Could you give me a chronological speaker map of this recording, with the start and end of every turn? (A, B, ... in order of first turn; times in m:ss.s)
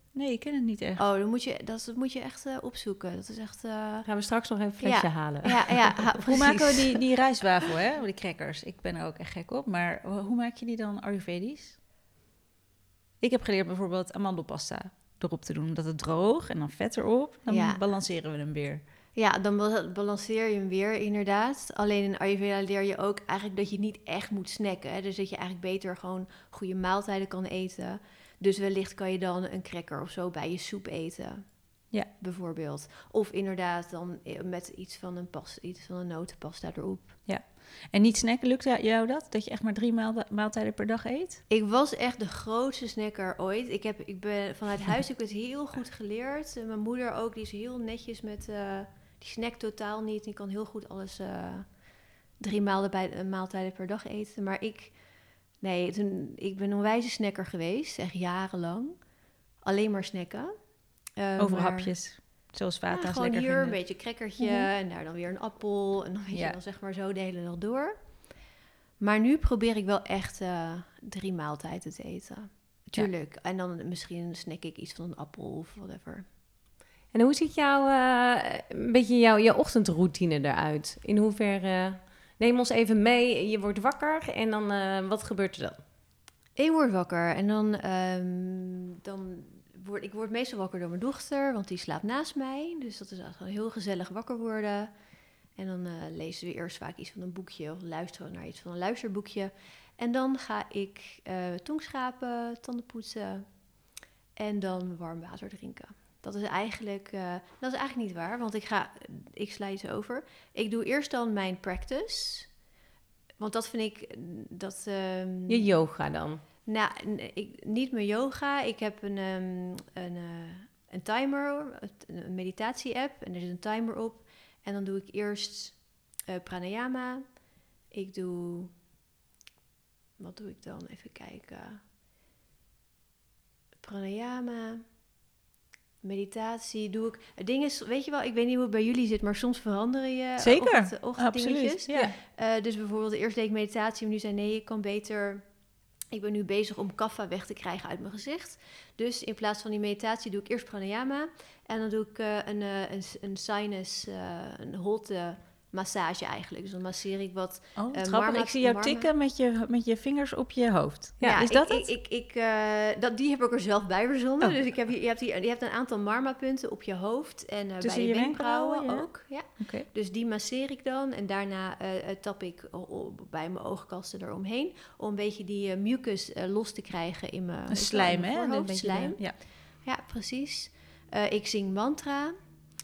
0:00.1-0:01.0 A
0:01.0-0:04.1 B
0:04.1-0:06.2 C
0:04.8-0:06.8 B
0:06.3-0:11.8 A
0:13.2-0:18.8 A
0:17.5-0:17.8 B
0:19.2-0:37.2 B
0:37.3-0:41.4 A
0:41.5-0:59.1 B
0:59.6-1:00.5 B
1:01.1-1:02.2 B
1:01.4-1:03.8 A
1:02.9-1:08.0 B
1:04.4-1:04.7 A
1:06.3-1:06.6 A
1:09.0-1:16.3 B
1:17.1-1:25.8 C
1:26.6-1:34.9 B
1:35.6-1:52.5 B
1:53.4-1:55.7 B
1:55.5-1:56.4 C
1:56.6-2:08.7 B
2:10.2-2:11.8 B
2:13.8-2:14.8 B
2:16.0-2:25.4 B
2:20.4-2:22.1 A
2:26.1-2:39.1 B
2:37.8-2:41.9 A
2:41.2-3:02.4 B
2:47.8-2:49.9 A
2:57.7-2:59.4 A